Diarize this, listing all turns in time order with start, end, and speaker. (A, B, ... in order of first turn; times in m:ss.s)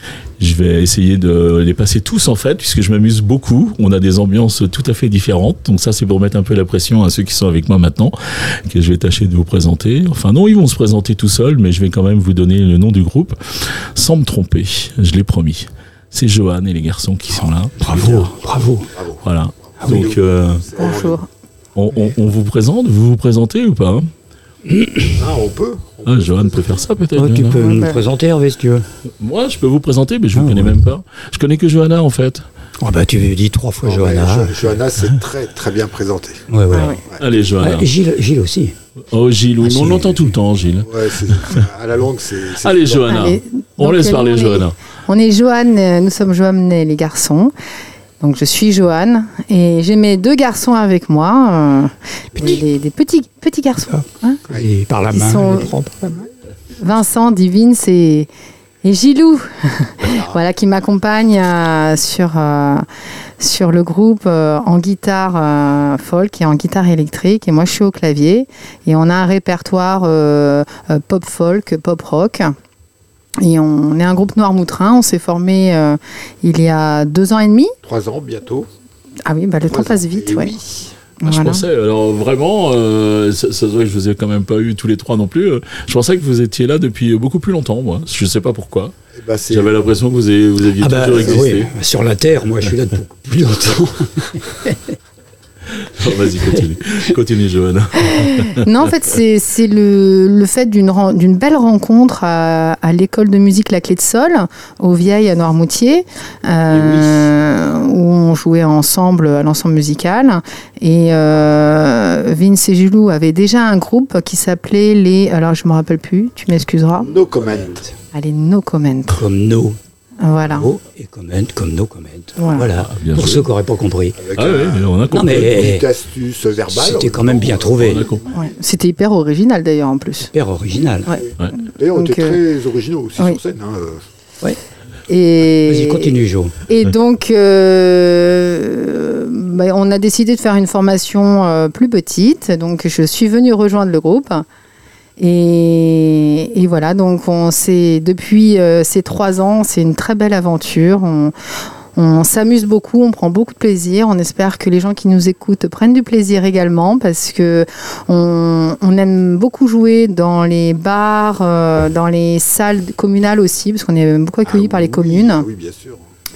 0:00.4-0:08.2 A
0:08.7-0:18.2 A
0:17.4-0:21.2 B
0:17.8-0:18.9 C
0:19.2-0:20.7 A
0:20.8-0:21.3 D
0:21.8-0:24.1 A
0:24.7-0:25.2 C
0:25.2-0:26.9 B
0:26.0-0:27.7 A
0:27.1-0:28.9 C
0:27.5-0:28.0 D
0:29.2-0:32.4 A
0:30.3-0:30.8 C
0:32.8-0:34.6 C
0:33.8-0:36.4 B
0:36.5-0:37.0 C
0:36.7-0:37.0 D
0:37.2-0:37.9 A
0:37.6-0:38.7 C
0:39.1-0:41.6 A
0:39.6-0:40.3 C
0:40.8-0:43.2 B
0:42.6-0:44.7 A
0:43.1-0:47.5 D
0:48.2-0:54.4 D
0:53.9-0:56.1 C
0:55.1-0:55.7 D
0:56.8-0:58.3 D
0:58.8-1:02.8 D
1:00.0-1:00.4 B
1:03.4-1:12.5 D
1:13.4-1:17.7 D
1:17.8-1:18.7 B
1:19.3-1:20.5 D
1:19.6-1:20.9 B
1:21.2-1:21.6 D
1:21.2-1:28.9 A
1:29.1-1:29.7 B
1:29.5-1:31.7 A
1:30.7-1:35.0 C
1:35.7-1:38.7 A
1:36.2-1:36.6 C
1:38.1-1:57.1 D
1:46.7-1:47.2 B
1:57.0-1:57.8 B
1:58.1-1:59.2 D
1:59.1-1:59.8 C
2:00.2-2:00.7 D
2:00.5-2:04.2 C
2:02.4-2:02.7 D
2:02.8-2:03.4 A
2:04.2-2:08.4 B
2:04.3-2:05.7 A
2:05.1-2:05.9 C
2:06.7-2:08.1 C
2:07.8-2:08.2 A
2:08.3-2:10.3 D
2:10.3-2:11.1 C
2:11.2-2:14.0 B
2:11.9-2:12.4 D
2:15.1-2:16.1 D
2:15.6-2:16.6 C
2:16.6-2:24.4 D
2:25.2-2:31.3 D
2:32.0-2:45.4 D
2:44.4-2:46.0 B